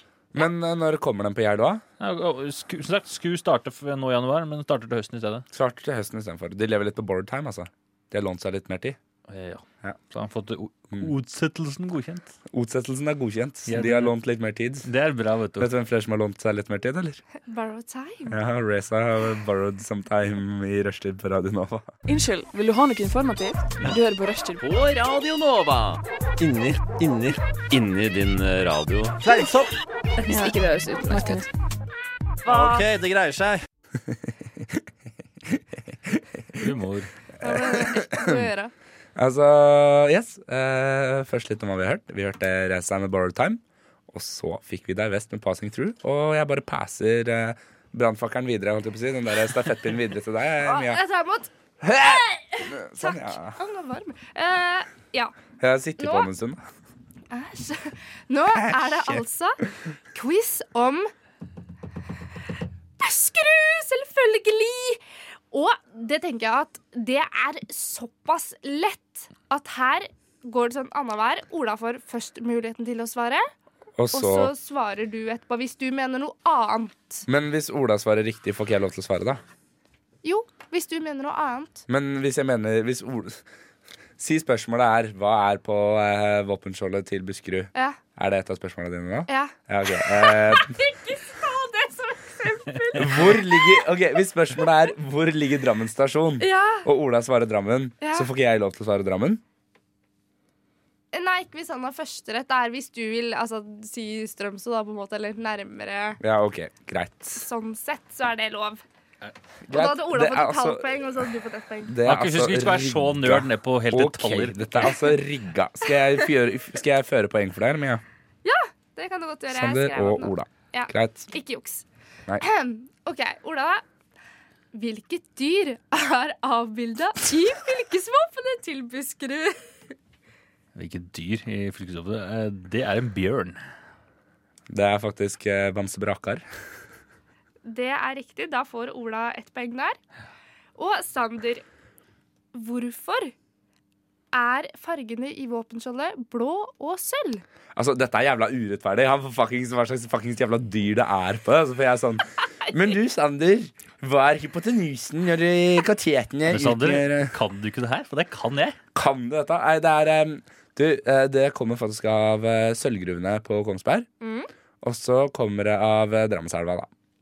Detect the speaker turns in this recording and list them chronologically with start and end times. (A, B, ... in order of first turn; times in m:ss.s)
0:00.3-0:01.8 A
0:02.0-0:05.4 B
0:05.5-0:09.0 A
0:09.3-0:12.3 B
0:12.5-0:14.9 A
0:13.7-0:14.1 B
0:14.8-0:15.7 B
0:15.6-0:17.2 A
0:17.5-0:18.4 C
0:18.3-0:21.9 A
0:22.0-0:24.6 D
0:24.6-0:29.7 E
0:30.3-0:31.5 D
0:32.4-0:33.6 E
0:32.5-0:32.9 B
0:32.5-0:32.8 C
0:34.1-0:34.8 A
0:35.5-0:36.7 A
0:36.6-0:37.1 B
0:37.4-0:38.7 C
0:37.4-0:38.5 A
0:39.2-0:51.0 A
0:50.6-0:55.3 C
0:51.8-0:53.6 A
0:55.6-0:56.6 A
0:56.0-0:56.3 C
0:57.3-0:59.6 C
0:58.5-0:59.2 A
1:00.1-1:01.1 C
1:03.0-1:13.5 C
1:14.0-1:14.5 A
1:14.1-1:17.2 C
1:17.3-1:19.4 A
1:20.2-1:21.8 C
1:21.9-1:23.4 A
1:24.2-1:30.8 A
1:27.7-1:28.0 C
1:29.3-1:33.9 C
1:32.9-1:39.4 A
1:36.4-1:36.9 C
1:38.0-1:38.3 C
1:41.1-1:46.2 C
1:46.2-1:47.4 A
1:47.3-1:48.8 C
1:49.6-1:50.9 A
1:49.7-1:52.0 C
1:51.8-1:58.0 A
1:52.0-1:54.8 B
1:58.4-2:01.8 C
1:59.5-2:01.3 A
2:02.4-2:03.8 C
2:04.7-2:09.6 C
2:10.7-2:13.6 B
2:14.7-2:16.4 A
2:17.6-2:20.0 C
2:20.8-2:21.6 C
2:22.5-2:23.3 C
2:24.3-2:27.4 C
2:27.7-2:37.3 A
2:36.5-2:38.8 B
2:38.9-2:44.1 A
2:44.2-2:44.5 C
2:44.8-2:46.9 A